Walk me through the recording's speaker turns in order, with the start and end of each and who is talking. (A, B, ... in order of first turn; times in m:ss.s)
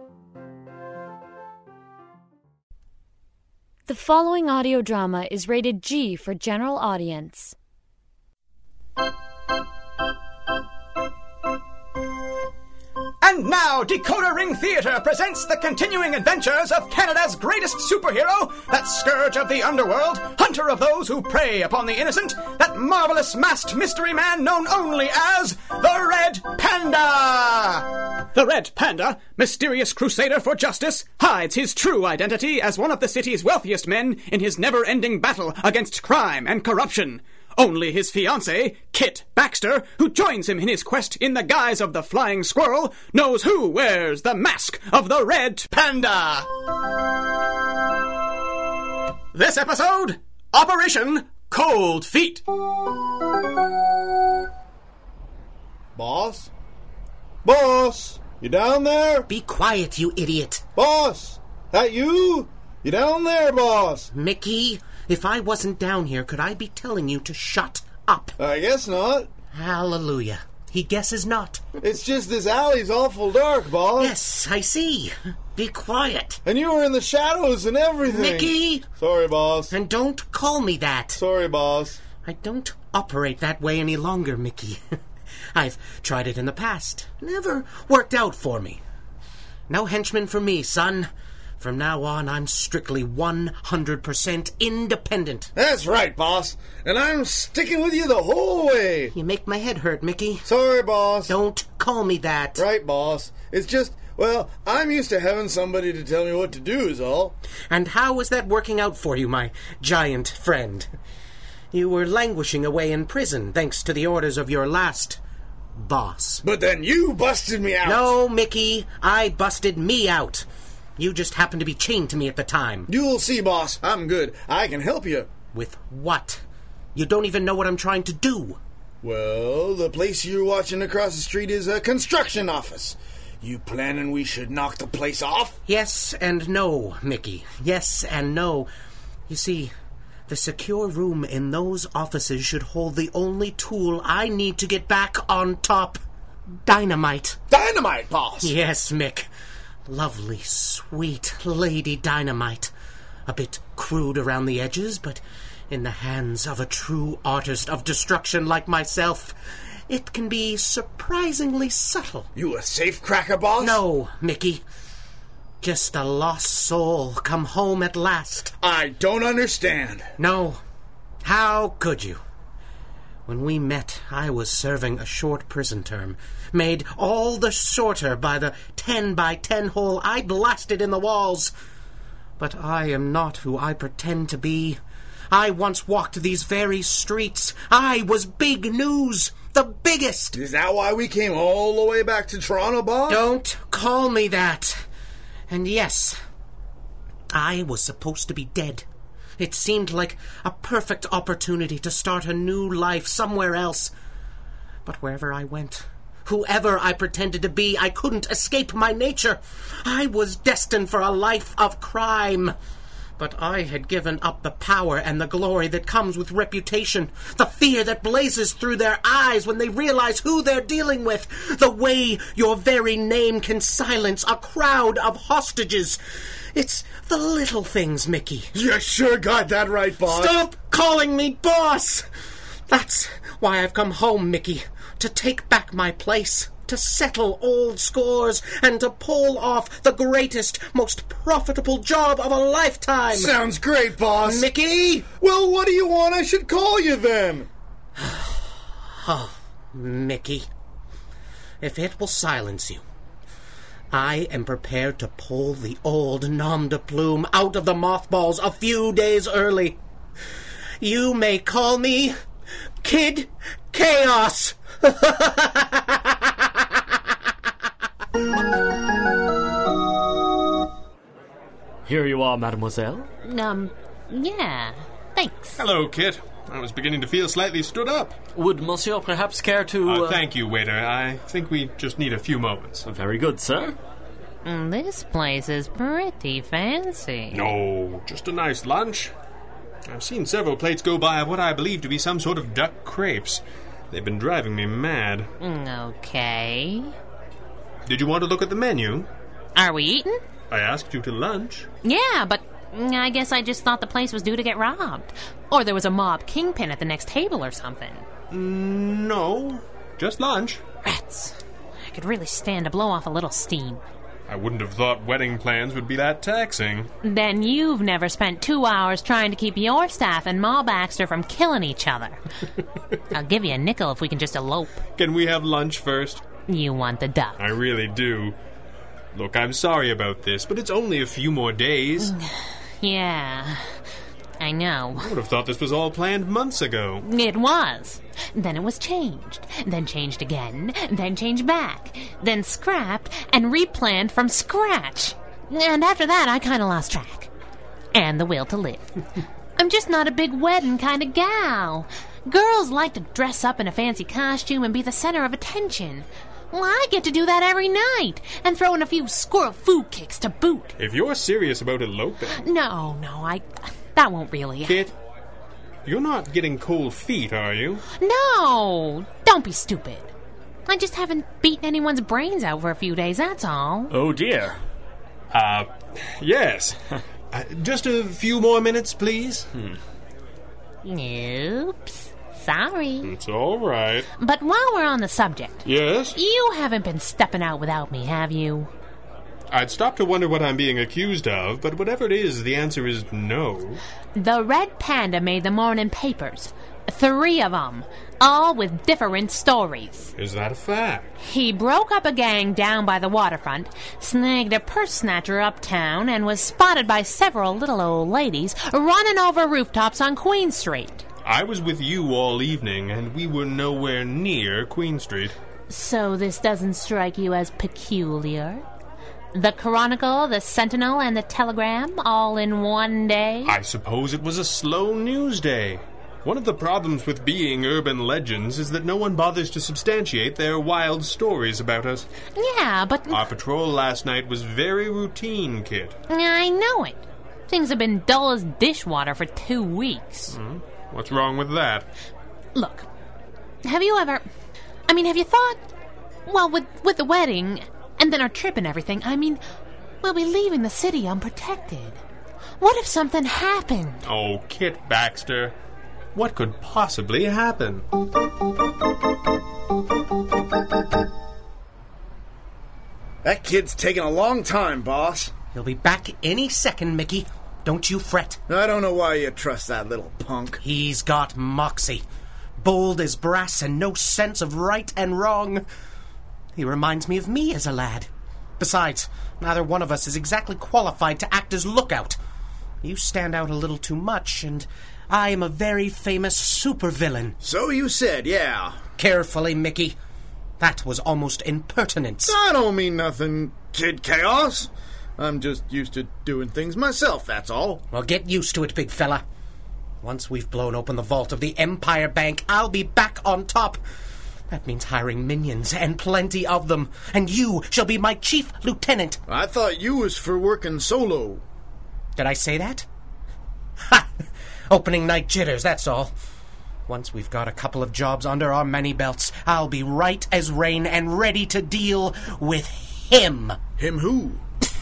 0:03.9-0:07.5 A
0:13.2-0:46.5 B
0:49.3-0:52.4 B
0:55.9-0:56.5 C
0:57.4-0:59.3 C
0:59.3-1:00.6 D
1:00.8-1:04.1 C
1:04.1-1:08.4 D
1:08.4-1:09.3 C
1:09.5-1:11.6 D
1:11.8-1:14.1 C
1:14.0-1:16.4 D
1:16.4-1:19.7 C
1:18.0-1:18.9 D
1:19.7-1:21.2 D
1:21.2-1:22.0 C
1:22.2-1:24.8 D
1:25.5-1:28.8 D
1:29.7-1:35.5 D
1:35.5-1:39.1 C
1:39.1-1:40.5 D
1:40.4-1:41.3 C
1:41.3-1:42.6 D
1:42.6-1:47.4 C
1:47.7-1:50.9 D
1:51.7-1:55.2 D
1:55.8-1:56.4 D
1:56.4-1:58.1 C
1:57.8-2:02.9 D
2:02.9-2:05.3 C
2:05.5-2:06.4 D
2:06.9-2:08.6 D
2:09.0-2:15.6 C
2:15.7-2:18.7 D
2:19.3-2:19.7 D
2:20.3-2:26.0 D
2:26.6-2:27.4 D
2:27.5-2:28.5 C
2:28.4-2:29.3 D
2:29.8-2:32.7 D
2:33.3-2:42.3 D
2:42.4-2:43.8 C
2:43.6-2:44.6 D
2:45.6-2:48.5 D
2:48.6-2:50.1 C
2:50.2-2:50.6 D
2:51.2-2:52.2 D
2:53.2-3:01.5 D
3:02.4-3:04.8 D
3:05.3-3:10.4 D
3:10.3-3:13.2 C
3:13.1-3:14.8 D
3:15.5-3:16.2 D
3:17.3-3:18.8 D
3:19.4-3:23.9 D
3:24.8-3:32.5 D
3:33.2-3:46.0 D
3:46.5-3:48.5 D
3:48.5-3:50.3 C
3:50.0-3:52.1 D
3:52.7-4:03.3 D
4:03.1-4:04.5 C
4:04.2-4:05.1 D
4:05.2-4:07.5 C
4:08.0-4:10.5 D
4:11.6-4:12.8 D
4:13.9-4:19.8 D
4:20.8-4:22.2 D
4:22.8-4:26.8 D
4:31.8-4:33.1 E
4:33.2-4:35.6 F
4:35.6-4:38.2 G
4:38.3-4:40.2 E
4:39.8-4:42.8 G
4:42.8-4:43.7 E
4:44.4-4:47.5 F
4:47.3-4:49.1 G
4:49.9-4:55.3 G
4:55.4-4:56.9 F
4:57.8-4:59.1 G
4:59.6-5:00.2 F
5:00.5-5:01.7 G
5:01.8-5:08.1 F
5:08.3-5:10.6 G
5:10.8-5:13.8 F
5:14.3-5:16.9 G
5:17.0-5:22.2 F
5:23.1-5:24.8 F
5:25.0-5:26.2 G
5:26.5-5:27.4 F
5:27.4-5:28.4 G
5:29.1-5:32.1 G
5:32.0-5:33.8 F
5:34.4-5:35.1 F
5:35.0-5:37.0 G
5:37.0-5:47.3 F
5:47.9-5:48.8 F
5:49.6-6:00.7 F
6:00.8-6:02.4 G
6:02.4-6:04.8 F
6:04.6-6:04.9 G
6:05.8-6:07.8 G
6:07.9-6:10.1 F
6:10.7-6:13.9 F
6:13.9-6:14.6 E
6:15.3-6:16.8 G
6:17.3-6:19.5 G
6:20.8-6:23.1 F
6:23.0-6:24.1 G
6:24.2-6:28.7 F
6:25.6-6:26.2 G
6:29.5-6:33.8 G
6:34.2-6:40.1 F
6:40.2-6:41.1 G
6:41.2-6:51.0 F
6:51.2-6:55.3 G
6:55.7-6:58.6 F
6:59.3-7:03.6 F
7:03.4-7:12.1 G
7:12.4-7:13.2 F
7:13.1-7:16.0 G
7:16.1-7:20.3 F
7:20.3-7:21.9 G
7:22.5-7:22.9 F
7:23.6-7:24.2 F
7:24.9-7:25.6 F
7:26.3-7:29.4 F
7:30.0-7:32.0 F
7:32.6-7:34.0 F
7:34.0-7:35.6 G
7:36.1-7:37.8 G
7:43.2-7:45.3 C
7:45.5-7:48.4 D
7:48.5-7:50.6 C
7:50.6-7:52.0 D
7:52.6-7:55.6 D
7:56.6-8:02.2 D
8:02.8-8:07.3 D
8:07.4-8:08.8 C
8:09.0-8:10.0 D
8:10.6-8:12.4 D
8:12.2-8:17.8 C
8:17.9-8:19.2 D
8:20.0-8:23.8 D
8:24.5-8:29.2 D
8:29.3-8:31.4 C
8:32.2-8:32.9 D
8:33.8-8:36.1 D
8:36.9-8:43.6 D
8:43.8-8:44.4 C